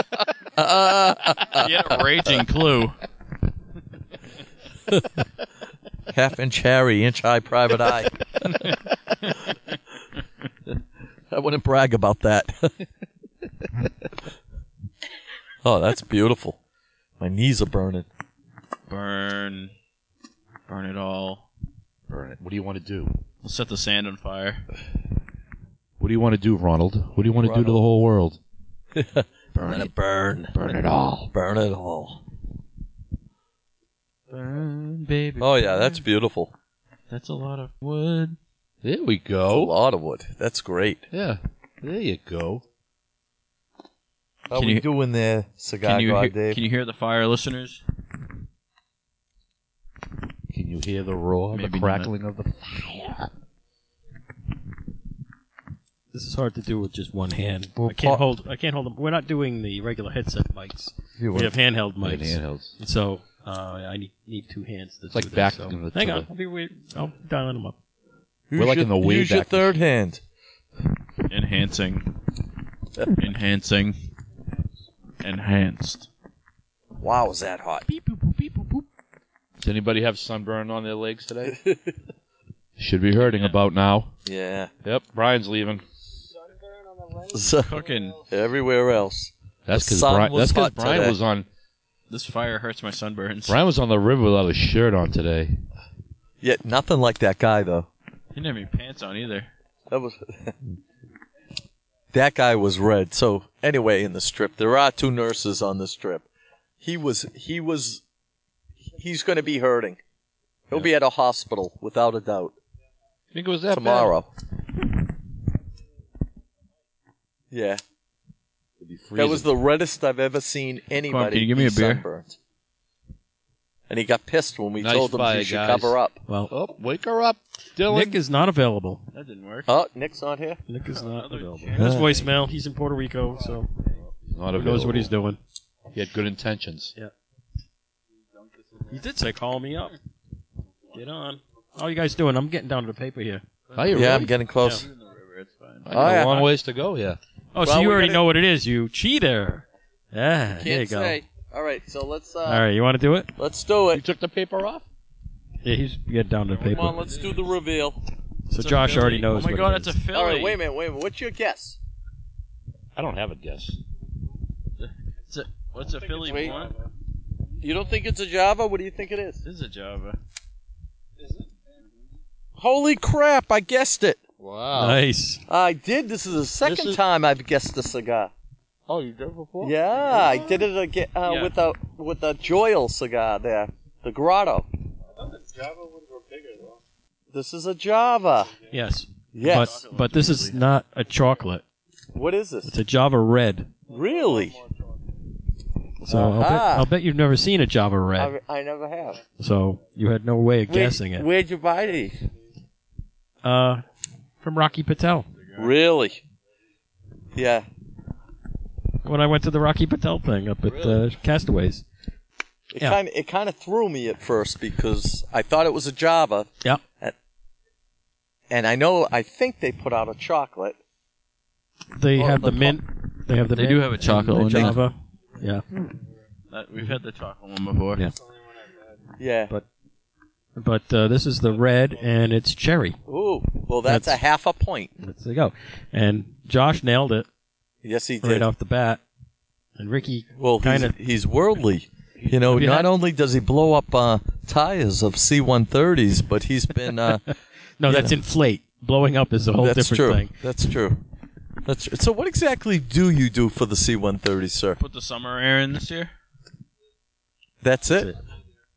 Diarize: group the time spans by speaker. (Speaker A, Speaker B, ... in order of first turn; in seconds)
Speaker A: 0.6-1.9, 6.1-8.6, 11.3-12.7, 15.6-16.6, 17.2-18.1, 27.4-27.8, 28.9-30.5, 31.3-32.2, 35.4-36.5, 39.5-41.0, 44.5-46.6, 57.8-58.2, 61.2-61.5, 68.5-70.2, 77.0-77.8, 81.5-81.9, 84.2-84.7, 87.3-91.2, 96.4-97.9, 99.9-100.5, 102.1-106.2, 106.8-108.0, 108.9-110.0, 110.7-112.5, 113.7-114.3, 117.5-117.8, 119.1-122.4, 123.9-126.2, 129.7-130.6, 131.8-132.1, 143.9-144.8, 145.9-146.5, 147.6-148.2, 150.6-152.7, 153.3-154.0, 156.6-158.0, 160.1-161.8, 166.2-166.6, 167.6-169.4, 172.6-174.2, 175.5-178.3, 179.6-184.7, 187.3-188.5, 189.3-189.8, 192.1-192.7, 193.9-194.6, 196.1-196.9, 198.2-199.2, 200.7-202.2, 205.6-206.2, 207.3-207.7, 212.7-217.1, 218.5-220.8, 222.1-222.8, 224.4-224.8, 229.2-229.5, 233.1-234.9, 237.8-238.5, 240.4-247.3, 247.8-248.2, 249.6-251.0, 251.6-254.8, 257.6-258.1
Speaker B: 1.5-3.0, 18.9-19.7, 20.7-21.4, 23.4-24.6, 34.3-36.0, 37.1-38.4, 44.5-44.8, 45.8-47.8, 51.5-52.1, 71.3-72.1, 73.1-74.0, 75.2-76.1, 83.2-83.6, 87.6-88.2, 92.1-93.6, 98.3-99.5, 121.0-122.0, 129.1-129.7, 130.9-132.3, 143.8-144.1, 144.6-146.3, 158.6-160.6, 164.8-166.7, 169.4-170.2, 189.4-190.6, 223.5-224.8, 226.5-228.0, 254.8-256.1
Speaker C: 22.1-23.2, 26.0-28.4, 29.6-29.9, 30.5-31.3, 34.4-34.7, 38.8-39.7, 41.1-42.6, 50.5-53.3, 62.0-62.7, 65.1-66.3, 68.5-69.7, 79.6-81.6, 82.8-84.1, 84.8-85.8, 89.7-91.5, 93.5-95.6, 113.3-114.1, 118.8-119.5, 124.8-125.9, 126.5-128.2, 134.2-135.1, 135.9-136.9, 143.8-144.3, 145.8-147.2, 153.9-154.8, 162.9-163.8, 174.4-175.0, 176.6-177.0, 178.9-180.3
Speaker D: 56.1-67.8, 126.3-126.5, 127.9-129.0, 130.7-133.7, 134.6-135.4, 138.9-139.9, 140.9-143.4, 147.5-151.2, 152.4-153.3, 155.6-157.0, 158.5-159.9, 174.8-175.4, 188.7-191.6, 192.7-193.7, 196.0-198.3, 199.4-201.2, 203.4-203.8, 204.4-205.3, 209.0-211.8, 221.9-225.6, 230.6-233.0, 233.8-234.2, 235.0-237.3, 238.2-239.0, 239.8-240.9, 242.5-242.9, 247.8-250.3